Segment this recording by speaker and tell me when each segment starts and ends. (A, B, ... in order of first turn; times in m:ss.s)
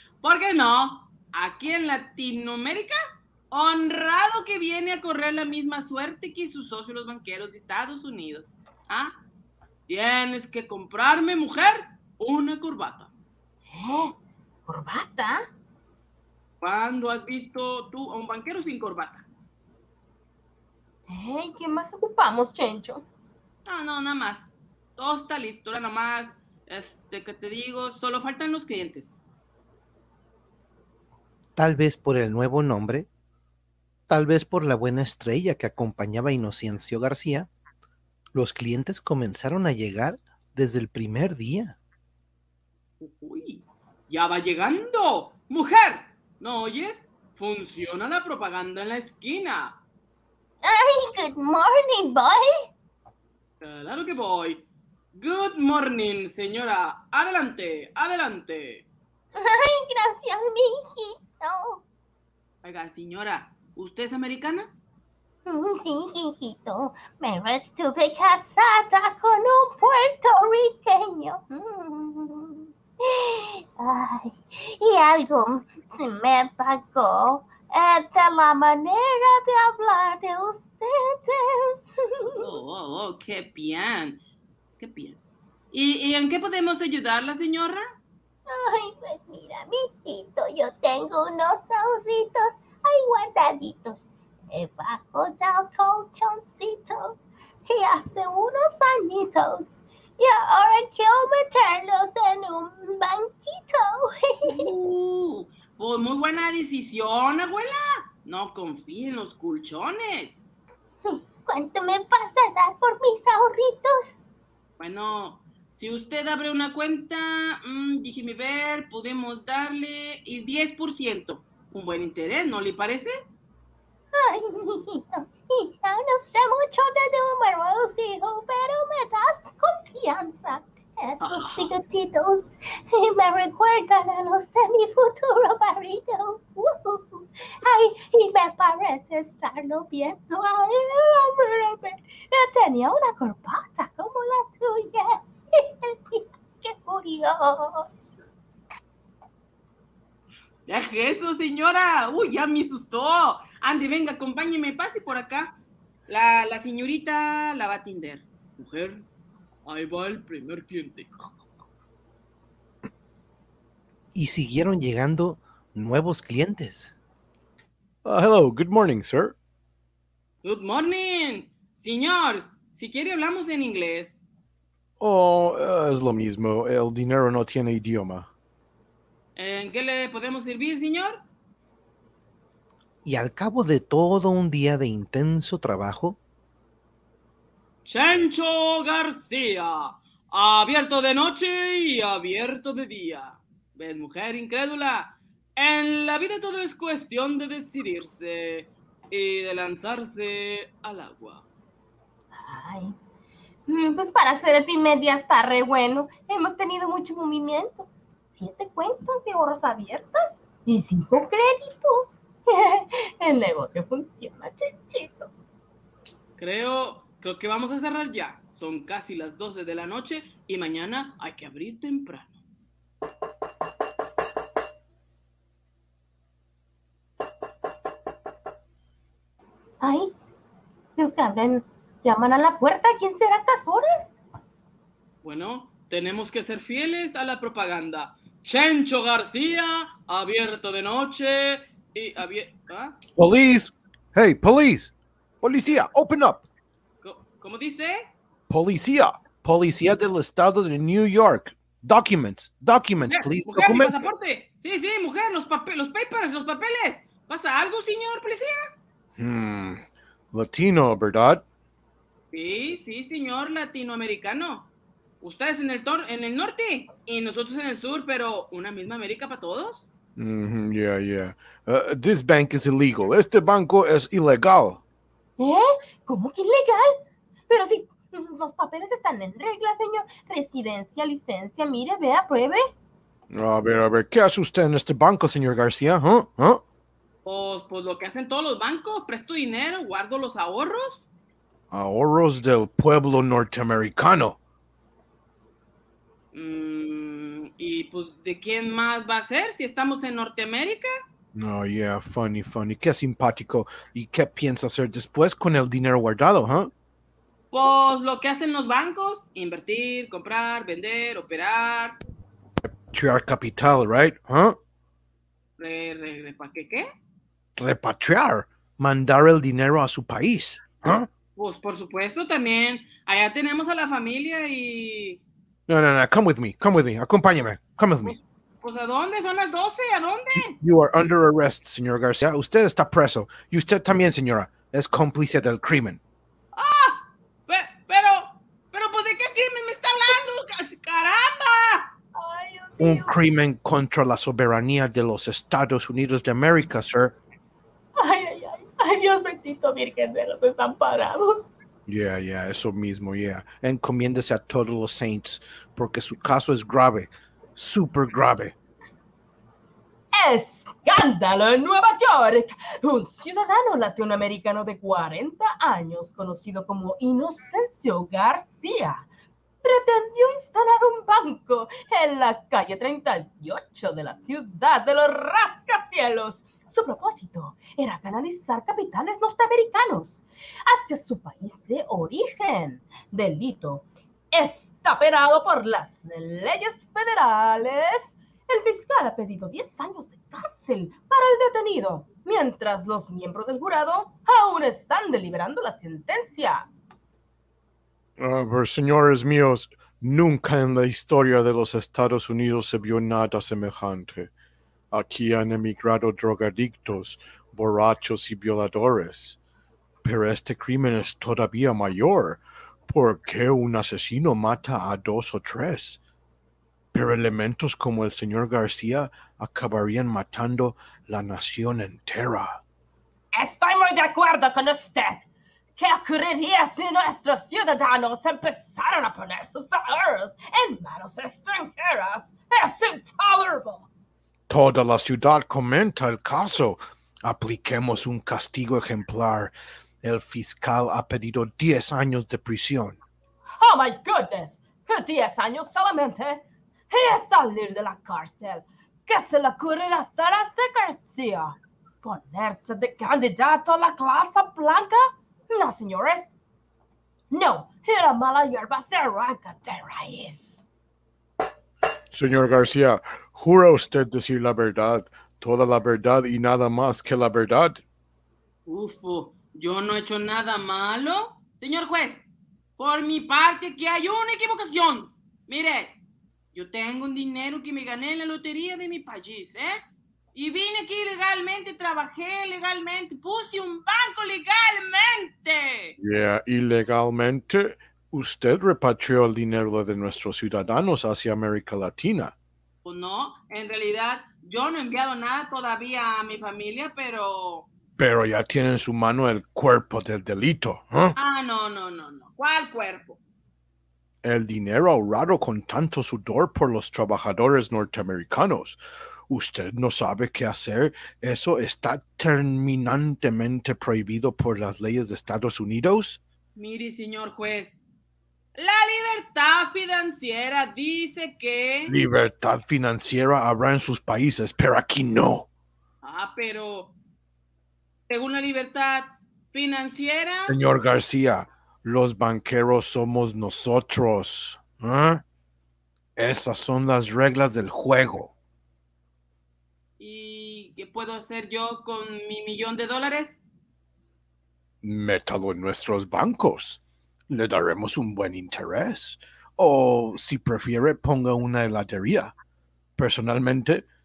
0:00.2-0:03.0 A
0:03.5-0:09.1 A
0:09.9-0:13.1 A
0:13.7-0:14.1 B
0:14.7-0:15.5 B
0:16.6-0:19.3 A
0:21.1-0:23.0 B
0:23.6-0:29.2 A
0:31.6-0:33.1 C
0:34.1-0:37.5 C
0:38.3-0:41.8 C
0:43.0-0:49.8 A
0:50.6-0:52.7 D
0:53.6-0:58.8 A
0:59.3-1:01.8 D
1:02.6-1:04.7 A
1:05.4-1:21.9 D
1:22.4-1:24.2 A
1:24.8-1:25.2 A
1:25.7-1:27.8 A
1:28.5-1:44.7 D
1:44.5-1:50.4 A
1:51.0-1:54.1 D
1:54.8-2:03.1 A
2:04.1-2:27.9 D
2:11.2-2:11.7 A
2:30.7-2:35.6 A
2:36.1-2:39.0 A
2:39.6-2:41.1 A
2:44.1-2:46.9 C
2:48.0-2:49.3 E
2:50.4-2:54.2 A
2:55.0-2:58.3 E
2:59.4-3:01.2 A
3:03.0-3:06.2 C
3:07.8-3:21.4 A
3:22.3-3:23.0 B
3:23.7-3:35.3 B
3:36.4-3:42.4 A
3:49.8-3:50.1 B
3:51.0-3:54.1 B
3:55.2-4:03.0 A
4:03.2-4:06.4 E
4:07.0-4:08.1 A
4:08.5-4:13.9 E
4:13.1-4:18.6 A
4:19.2-4:21.4 E
4:22.3-4:24.7 A
4:25.2-4:29.8 A
4:30.2-4:34.8 E
4:35.4-4:42.7 B
4:43.3-4:46.6 E
4:47.2-4:51.0 A
4:51.7-4:54.4 E
4:56.3-5:00.9 A
5:01.3-5:06.7 E
5:07.5-5:12.0 A
5:12.6-5:14.6 E
5:15.6-5:16.9 A
5:17.6-5:21.1 E
5:21.4-5:25.2 A
5:25.7-5:28.1 E
5:28.0-5:30.6 A
5:30.6-5:36.0 E
5:36.5-5:41.9 A
5:42.1-5:43.2 B
5:42.8-5:47.2 E
5:48.0-5:51.5 B
5:51.9-5:58.5 E
6:00.1-6:09.1 B
6:09.6-6:36.7 B
6:38.2-6:44.3 E
6:44.9-6:49.4 E
6:50.0-6:56.0 E
6:56.9-7:02.6 E
7:03.3-7:13.9 B
7:14.5-7:23.0 E
7:23.5-7:36.3 B
7:37.3-7:40.7 B
7:42.1-7:47.8 E
7:48.7-7:52.2 A
7:52.8-7:56.0 A
7:56.5-7:59.8 A
8:00.3-8:05.9 A
8:06.0-8:12.3 E
8:12.8-8:17.7 A
8:18.0-8:21.2 E
8:21.2-8:23.2 A
8:24.2-8:36.2 E
8:36.6-8:37.8 A
8:38.6-8:41.9 A
8:41.9-8:45.5 E
8:46.0-8:46.9 A
8:48.1-8:50.5 A
8:50.5-8:55.2 E
8:56.2-8:58.3 E
9:00.0-9:03.4 A
9:04.8-9:12.3 E
9:13.0-9:13.8 E